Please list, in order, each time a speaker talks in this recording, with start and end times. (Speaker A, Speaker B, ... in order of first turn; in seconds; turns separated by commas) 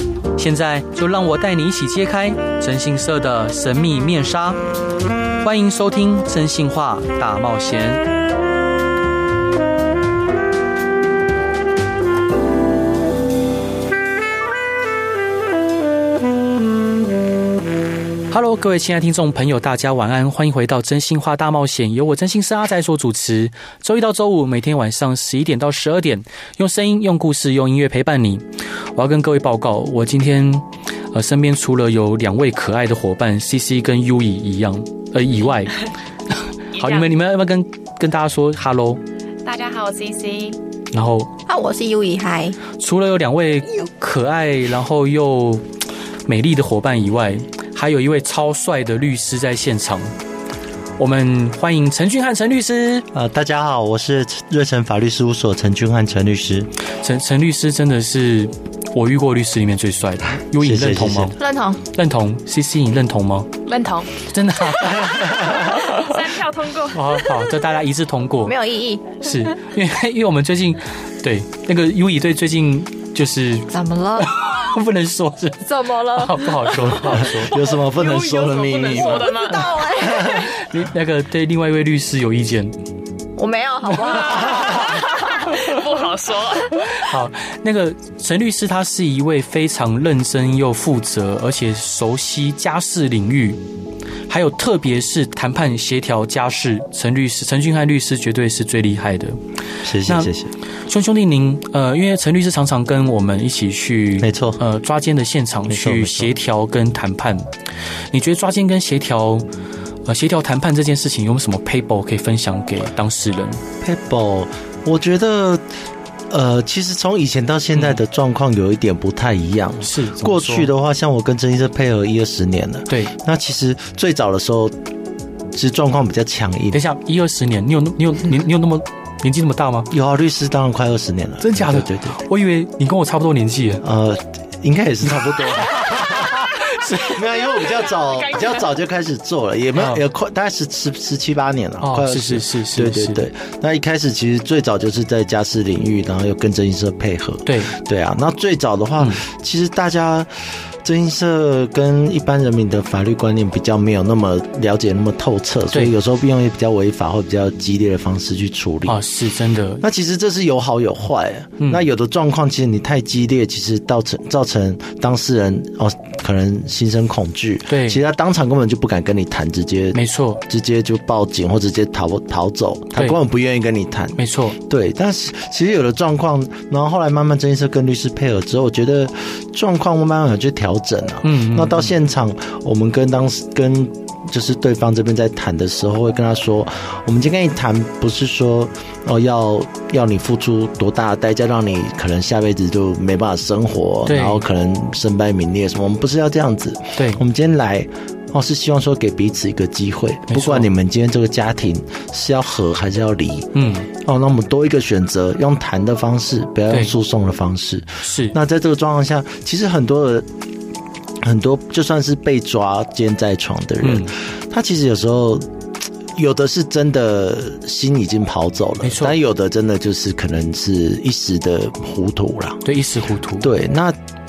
Speaker A: 0.3-4.6, Speaker A: 5.4-8.0, Speaker A: 18.3-28.4, Speaker A: 28.9-35.8, Speaker A: 36.7-39.0, Speaker B: 36.8-37.0, Speaker B: 39.4-40.6, Speaker A: 40.9-41.3, Speaker C: 41.5-42.6, Speaker A: 42.8-45.6, Speaker A: 46.2-50.1, Speaker A: 51.0-53.0, Speaker D: 53.1-56.7, Speaker A: 56.9-61.4, Speaker D: 60.5-61.3, Speaker C: 61.4-61.8, Speaker A: 61.9-63.5, Speaker B: 63.6-64.1, Speaker A: 64.2-66.1, Speaker B: 65.2-67.1, Speaker A: 66.9-68.5, Speaker C: 68.4-69.2, Speaker A: 69.2-77.5, Speaker C: 73.7-74.3, Speaker C: 75.7-77.3, Speaker D: 77.0-79.4, Speaker B: 77.7-79.8, Speaker C: 79.1-80.5, Speaker D: 80.1-80.4, Speaker A: 80.3-82.7, Speaker C: 83.3-85.1, Speaker B: 84.1-86.8, Speaker A: 86.9-93.6, Speaker A: 94.3-99.4, Speaker D: 99.8-100.5, Speaker A: 100.0-100.3, Speaker A: 100.8-107.5, Speaker D: 104.2-104.6, Speaker D: 105.7-106.3, Speaker A: 108.1-109.5, Speaker A: 110.1-113.6, Speaker D: 113.8-115.6, Speaker D: 116.3-124.7, Speaker A: 119.8-120.7, Speaker A: 122.9-123.1, Speaker D: 125.5-126.8, Speaker A: 126.7-129.9, Speaker D: 129.9-132.2, Speaker A: 131.4-133.8, Speaker D: 133.8-159.0, Speaker A: 135.9-137.2, Speaker A: 141.8-143.2, Speaker A: 147.4-147.7, Speaker A: 158.9-159.8, Speaker D: 159.8-210.3, Speaker A: 167.7-168.0, Speaker A: 169.9-170.4, Speaker A: 174.2-174.6, Speaker A: 181.2-181.9, Speaker A: 194.1-194.4, Speaker A: 200.3-200.7, Speaker A: 203.5-203.9, Speaker A: 208.0-208.3, Speaker D: 211.2-215.4, Speaker A: 213.8-214.1, Speaker D: 216.1-222.6, Speaker A: 218.8-219.1, Speaker A: 222.6-223.5, Speaker D: 223.4-224.0